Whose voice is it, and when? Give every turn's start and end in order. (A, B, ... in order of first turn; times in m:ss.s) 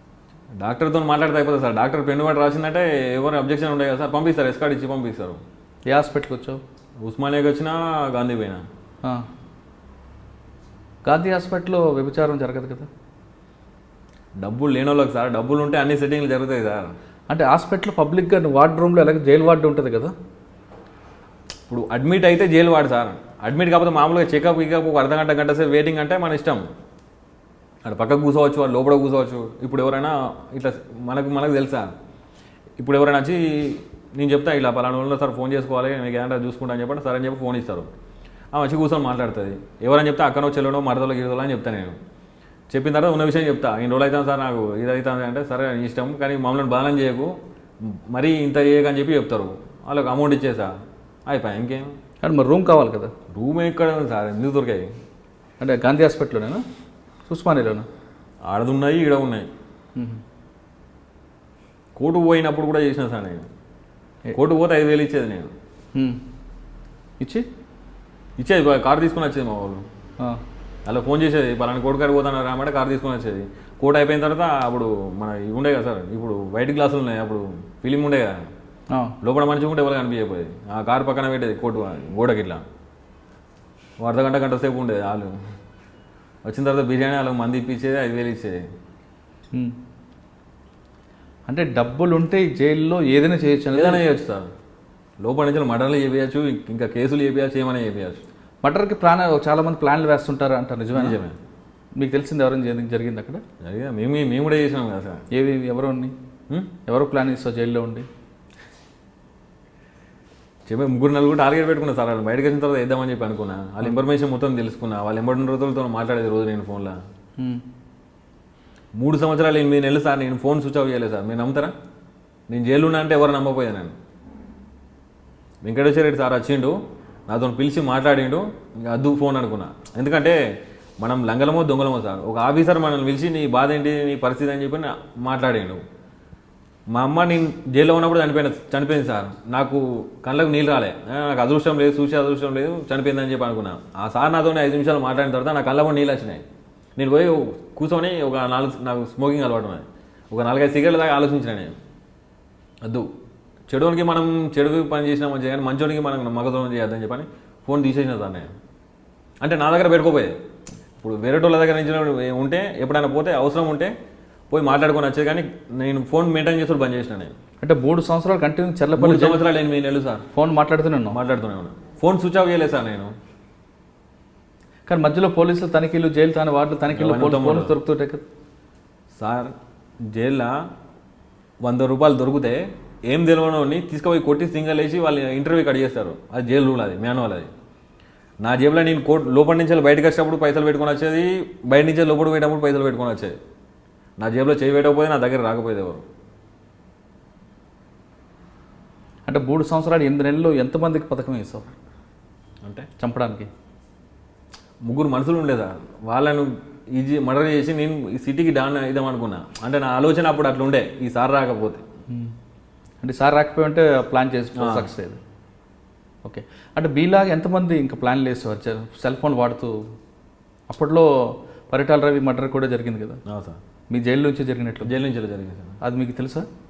0:00.6-0:05.4 A
0:05.9-0:06.6 B
0:07.0-0:08.6 A
0:11.1-0:12.9 B
0:14.4-0:16.9 A
0:17.3-0:20.1 B
0:21.7-0:26.6 A
0:27.9-0:31.9 A
0:32.8-0:37.9 A
0:38.5-0:42.0 A
0:42.7-0:50.7 A
0:51.3-0:51.9 A
0:52.2-0:53.1 B
0:53.3-0:54.9 A
0:55.6-0:56.6 B
0:57.3-0:57.9 B
0:58.4-0:59.5 A
1:00.0-1:00.2 B
1:02.0-1:03.5 A
1:04.3-1:05.5 A
1:06.0-1:06.2 B
1:07.2-1:07.5 B
1:08.4-1:09.9 A
1:10.9-1:18.4 A
1:19.2-1:22.6 A
1:24.0-1:25.4 A
1:26.4-1:28.6 A
1:31.5-1:34.0 B
1:33.7-1:34.5 A
1:35.2-1:38.2 A
1:38.6-1:41.2 B
1:41.0-1:41.4 A
1:42.0-1:43.4 B
1:43.6-1:45.2 A
1:45.3-1:46.1 B
1:46.9-1:48.1 B
1:50.7-1:57.0 A
1:59.0-2:01.7 A
2:02.5-2:04.0 A
2:05.6-2:06.8 A
2:07.3-2:10.4 A
2:11.0-2:15.8 A
2:16.9-2:26.4 A
2:27.0-2:31.8 A
2:33.7-2:38.5 A
2:39.4-2:40.4 A
2:41.0-2:43.9 A
2:44.5-2:47.3 A
2:47.6-2:49.4 B
2:49.0-2:50.2 A
2:50.3-2:51.2 B
2:51.1-2:53.1 A
2:54.9-2:58.2 B
2:56.9-2:57.7 A
2:59.1-2:59.5 A
3:00.1-3:00.6 A
3:01.6-3:07.5 A
3:08.4-3:13.4 A
3:14.2-3:16.0 A
3:19.3-3:21.7 B
3:22.6-3:22.9 A
3:23.0-3:23.5 B
3:24.9-3:31.8 A
3:33.0-3:35.2 B
3:34.6-3:34.9 A
3:36.2-3:39.8 B
3:40.7-3:43.2 B
3:43.3-3:43.6 A
3:43.9-3:44.9 B
3:44.8-3:45.8 A
3:45.8-3:46.5 B